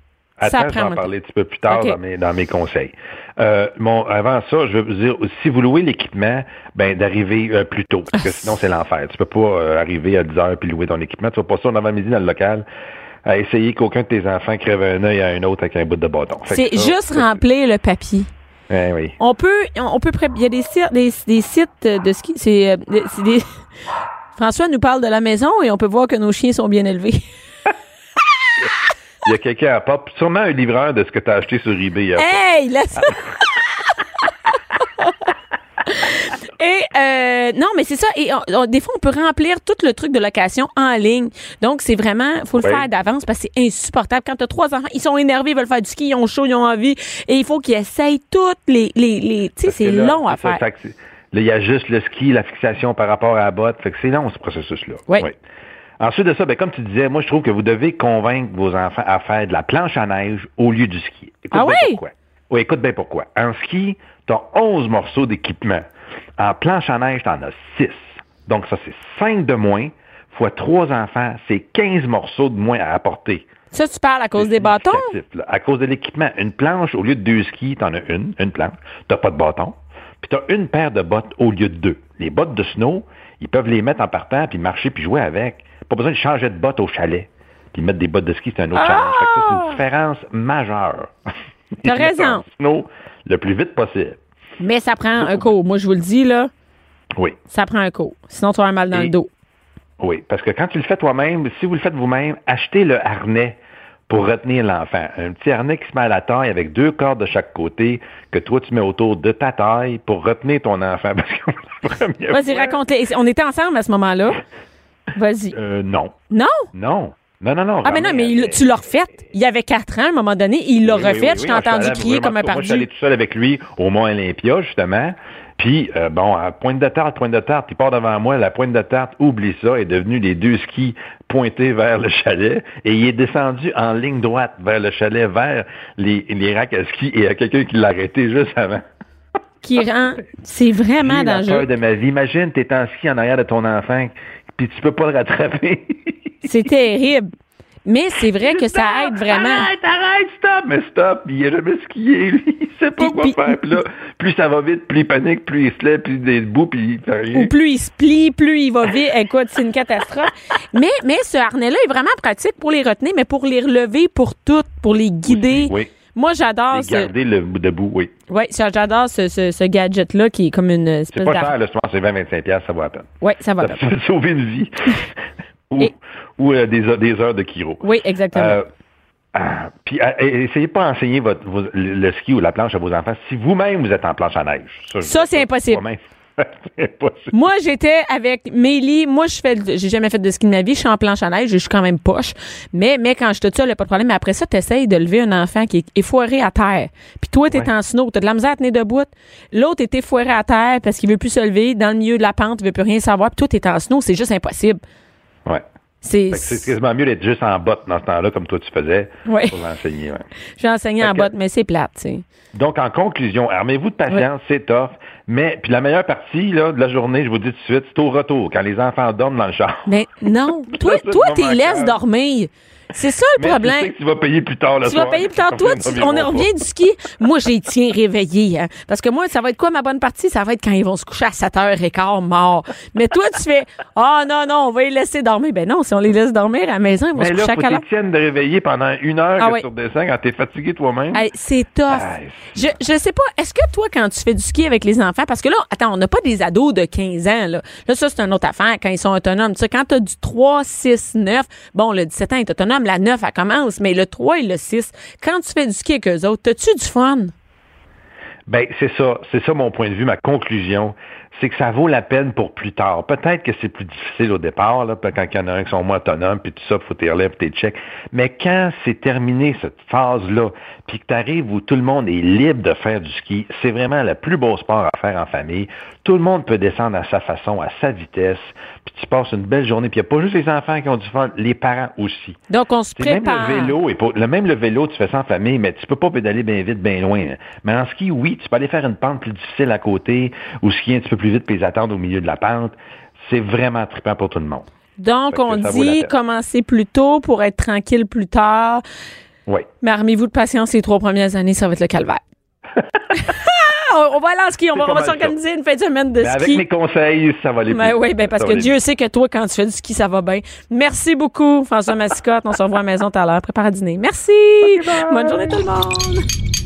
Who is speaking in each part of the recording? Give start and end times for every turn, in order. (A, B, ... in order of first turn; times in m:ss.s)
0:00.4-0:12.7 A
0:00.4-0:01.1 B
0:01.7-0:02.0 B
0:08.1-0:08.5 B
0:13.2-0:17.4 A
0:16.5-0:18.3 B
0:18.7-0:19.2 A
0:19.2-0:23.6 B
0:24.4-0:27.3 B
0:29.2-0:32.4 A
0:32.2-0:33.7 B
0:35.9-0:50.6 B
0:42.6-0:42.8 A
0:49.6-0:55.3 A
0:56.0-1:05.9 A
1:01.5-1:02.0 B
1:06.4-1:13.5 A
1:13.7-1:15.2 B
1:14.4-1:31.1 A
1:28.8-1:29.8 B
1:31.8-1:34.2 A
1:31.8-1:32.4 B
1:34.6-1:36.5 B
1:35.2-1:35.5 A
1:37.5-1:39.3 B
1:40.0-1:52.8 A
1:52.3-1:54.4 B
1:55.2-1:55.6 B
1:55.5-1:56.2 A
1:56.3-1:56.7 B
1:56.7-1:58.7 A
1:57.8-2:02.9 B
2:00.8-2:18.8 A
2:19.6-2:21.7 B
2:21.0-2:26.1 A
2:26.4-2:27.3 B
2:27.9-2:29.7 B
2:28.5-2:37.5 A
2:33.0-2:33.8 B
2:37.3-2:47.1 B
2:45.3-2:45.9 A
2:46.7-2:48.1 A
2:48.3-2:51.5 B
2:51.1-2:55.2 A
2:53.2-2:53.8 B
2:55.7-2:58.7 A
2:57.8-2:58.6 B
2:59.3-3:07.4 A
3:05.0-3:05.8 B
3:07.3-3:24.8 B
3:26.0-3:26.7 B
3:26.3-3:30.3 A
3:29.3-3:29.6 B
3:30.6-3:32.2 B
3:31.0-3:31.3 A
3:32.6-3:39.9 A
3:39.9-3:43.9 B
3:40.7-3:42.0 A
3:43.4-3:46.5 A
3:44.8-3:57.8 B
3:57.2-4:01.2 A
3:59.4-3:59.6 B
4:01.1-4:17.3 B
4:01.9-4:02.7 A
4:18.5-4:42.4 A
4:42.5-4:43.8 B
4:43.0-4:54.7 A
4:55.0-4:58.8 B
4:55.3-4:56.1 A
4:59.8-5:02.2 B
5:03.1-5:06.6 B
5:04.7-5:05.4 A
5:06.2-5:08.8 A
5:07.7-5:16.2 B
5:14.8-5:15.7 A